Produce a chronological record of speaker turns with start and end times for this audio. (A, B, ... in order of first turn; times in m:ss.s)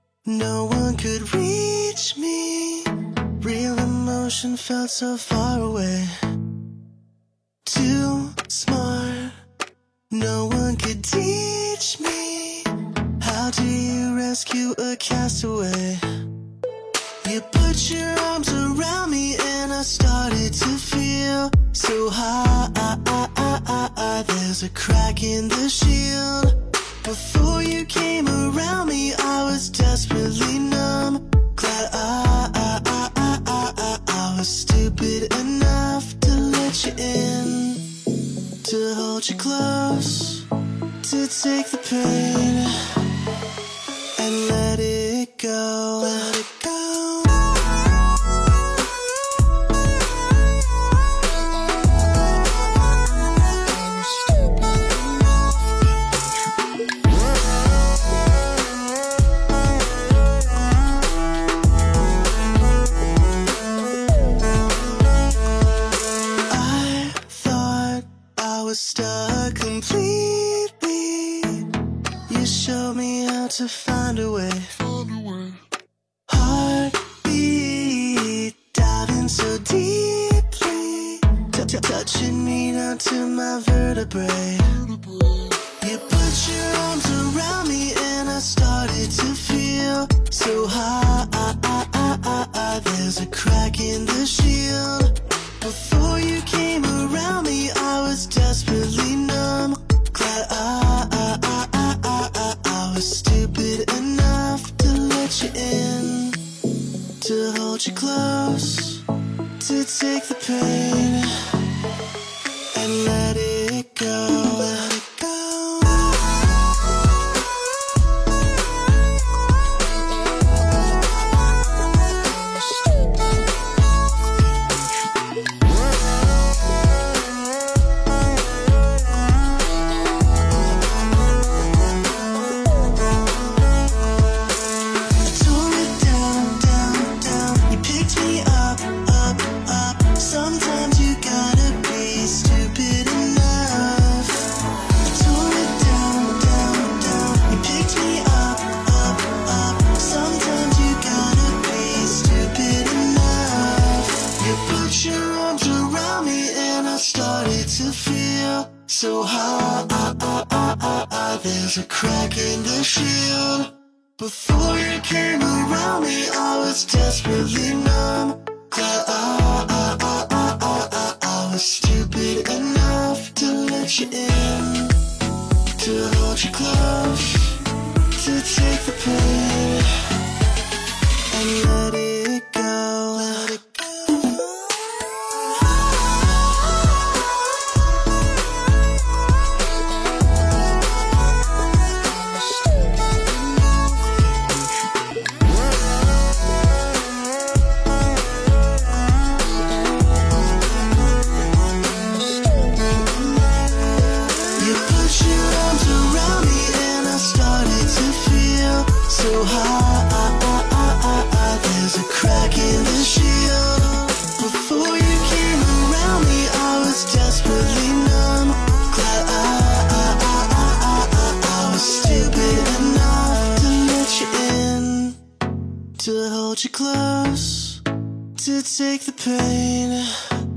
0:00.2-0:06.1 A
0:07.6-0:09.4 A
0:10.1-0:16.0 A
0:17.2-0:37.9 A
0:38.6-0:40.4 A
0:41.0-0:42.7 A
0:44.2-0:47.6 A
1:06.5-1:11.7 A
1:12.3-1:15.5 A
1:16.3-1:25.0 A
1:25.8-1:46.4 A
1:47.2-1:49.0 A
1:49.6-1:51.3 A
1:52.7-1:56.4 A
2:15.2-2:24.5 A
2:25.1-2:55.0 A
2:55.8-2:57.6 A
2:58.1-2:59.9 A
3:01.3-3:04.4 A
3:24.6-3:45.2 A
3:46.0-3:47.8 A
3:48.4-3:50.1 A